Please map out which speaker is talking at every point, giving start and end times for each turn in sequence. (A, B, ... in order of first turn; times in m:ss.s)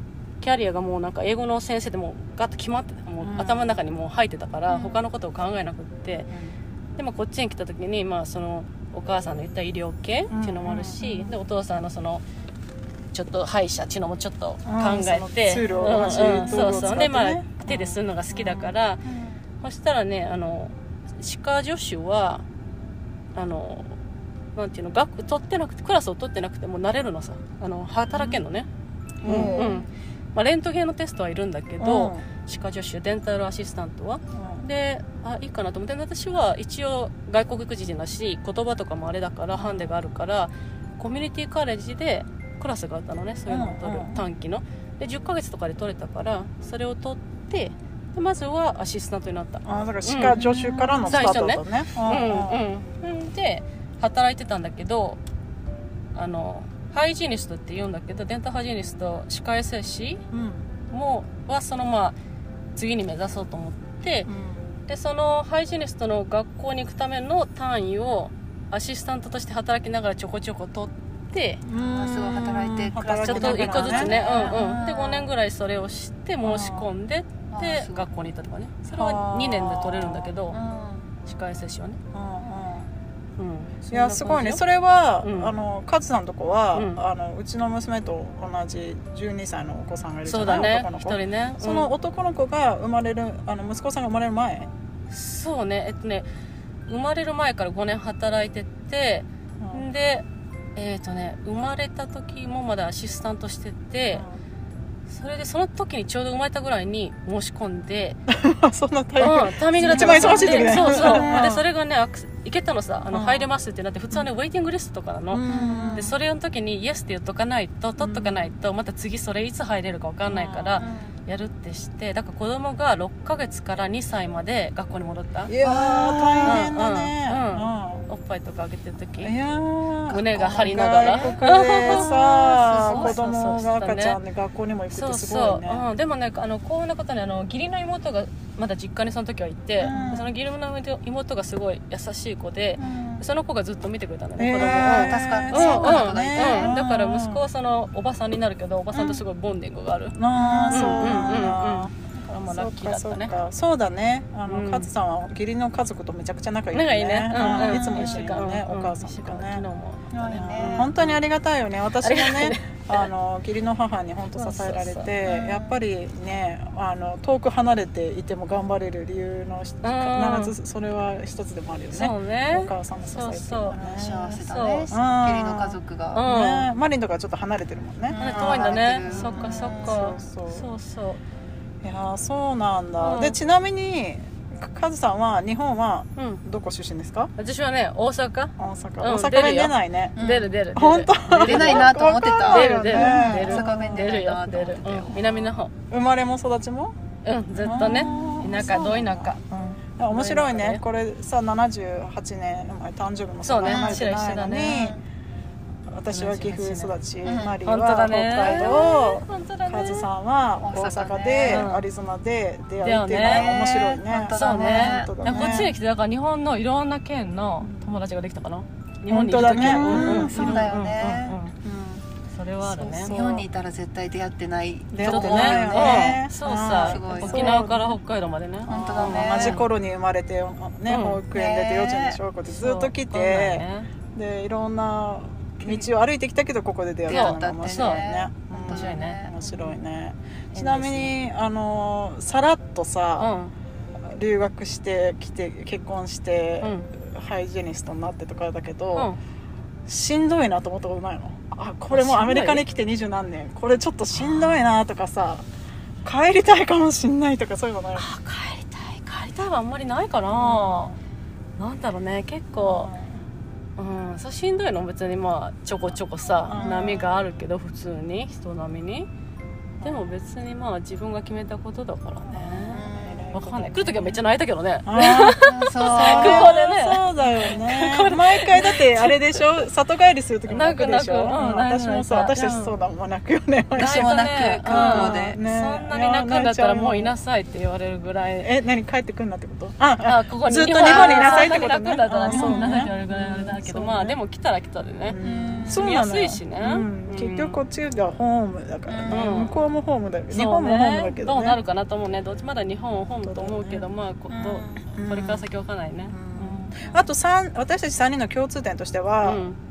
0:00.4-0:06.3 A
0:03.2-0:03.7 B
0:04.7-0:05.0 C
0:07.0-0:12.2 A
0:10.3-0:11.3 B
0:13.1-0:19.0 A
0:14.6-0:18.7 B
0:19.0-0:19.4 C
0:19.6-0:22.4 A
0:23.4-0:24.0 A
0:24.6-0:28.7 A
0:28.1-0:28.4 B
0:29.2-0:29.7 B
0:29.2-0:50.4 A
0:29.3-0:29.9 C
0:31.8-0:32.2 B
0:34.3-0:34.6 B
0:43.5-0:44.2 B
0:49.6-0:52.6 B
0:50.3-0:51.2 C
0:51.1-0:55.2 A
0:56.2-1:00.2 A
1:00.3-1:00.7 B
1:00.9-1:02.2 A
1:02.8-1:04.3 A
1:04.3-1:04.8 B
1:04.9-1:11.6 A
1:11.6-1:14.5 B
1:11.9-1:15.3 C
1:13.2-1:20.6 A
1:16.4-1:16.9 B
1:17.5-1:18.1 C
1:18.9-1:20.3 B
1:20.5-1:21.1 C
1:21.2-1:22.0 A
1:22.1-1:22.9 B
1:23.4-1:24.6 A
1:23.9-1:34.7 B
1:25.2-1:25.5 A
1:26.7-1:27.0 A
1:30.3-1:31.9 A
1:35.1-1:36.3 A
1:36.9-1:40.2 A
1:39.6-1:39.9 B
1:40.8-1:44.2 A
1:45.1-1:48.2 A
1:48.3-1:51.6 B
1:49.2-1:55.4 A
1:49.9-1:51.5 C
1:53.1-1:53.5 B
1:55.3-1:56.1 B
1:55.5-1:56.1 C
1:55.9-2:05.5 A
1:58.0-1:58.5 B
2:00.3-2:00.8 B
2:00.8-2:01.2 C
2:05.5-2:08.1 B
2:05.6-2:06.7 C
2:06.4-2:09.3 A
2:09.2-2:15.8 B
2:10.1-2:14.2 A
2:10.1-2:13.2 C
2:14.9-2:30.2 A
2:19.8-2:20.3 C
2:19.8-2:20.3 B
2:22.8-2:23.2 C
2:24.4-2:27.4 B
2:24.6-2:26.8 C
2:30.2-2:31.9 B
2:30.4-2:31.6 C
2:30.7-2:33.3 A
2:32.5-2:39.6 B
2:34.5-2:34.9 A
2:36.7-2:41.2 A
2:37.4-2:38.3 C
2:40.1-2:40.9 C
2:40.4-2:54.4 B
2:42.0-2:43.0 A
2:44.4-2:45.1 A
2:45.3-2:45.8 C
2:49.8-2:50.5 A
2:51.9-2:53.8 A
2:53.7-2:56.2 C
2:54.4-2:54.9 A
2:54.9-3:00.7 B
2:56.1-2:56.7 A
2:58.1-3:00.1 C
2:58.2-3:01.2 A
3:01.8-3:07.3 B
3:03.0-3:03.4 A
3:06.2-3:06.4 A
3:07.4-3:15.7 A
3:08.6-3:10.2 B
3:10.2-3:10.5 C
3:10.8-3:14.1 B
3:11.4-3:15.5 C
3:15.9-3:17.0 B
3:17.2-3:19.4 A
3:17.6-3:25.0 B
3:18.0-3:18.9 C
3:20.1-3:20.8 A
3:23.4-3:24.9 A
3:23.6-3:24.1 C
3:24.6-3:25.0 C
3:25.9-3:35.7 B
3:26.1-3:26.9 A
3:27.2-3:27.6 C
3:27.6-3:30.1 A
3:30.6-3:31.7 C
3:31.5-3:31.8 A
3:32.8-3:33.5 A
3:33.1-3:35.7 C
3:34.4-3:41.6 A
3:37.6-3:37.9 B
3:39.1-3:41.1 B
3:39.4-3:41.4 C
3:41.6-3:42.0 B
3:42.3-3:43.1 A
3:42.6-3:43.5 B
3:43.0-3:47.6 C
3:44.9-3:48.0 B
3:45.0-3:49.7 A
3:48.7-3:49.6 C
3:48.7-4:03.3 B
3:50.9-3:51.2 A
3:51.3-3:52.2 C
3:52.5-3:53.9 A
3:57.1-3:59.7 C
3:57.1-3:58.0 A
3:58.6-3:59.2 A
4:00.5-4:01.1 A
4:03.2-4:03.5 A
4:04.1-4:09.1 B
4:06.6-4:06.9 A
4:09.9-4:15.4 B
4:11.9-4:12.6 A
4:14.2-4:14.6 A
4:16.0-4:18.1 B
4:18.0-4:20.9 A
4:20.3-4:21.0 B
4:21.6-4:22.9 A
4:22.6-4:23.2 B
4:23.8-4:29.1 A
4:26.4-4:27.1 B
4:26.6-4:27.0 C
4:29.8-4:30.1 B
4:29.8-4:39.6 A
4:32.3-4:34.2 B
4:32.6-4:33.4 C
4:34.9-4:47.1 B
4:35.4-4:36.5 C
4:40.5-4:42.7 A
4:43.8-4:48.5 A
4:43.8-4:45.4 C
4:48.4-4:54.2 B
4:50.0-4:57.6 A
4:50.8-4:51.6 C
4:52.3-4:52.8 C
4:55.0-5:01.6 B
4:55.2-4:55.9 C
4:58.9-4:59.6 C
4:59.1-4:59.5 A
5:00.3-5:06.8 A
5:03.2-5:03.9 B
5:04.3-5:04.9 C
5:05.0-5:05.4 B
5:06.1-5:09.4 B
5:09.2-5:09.6 A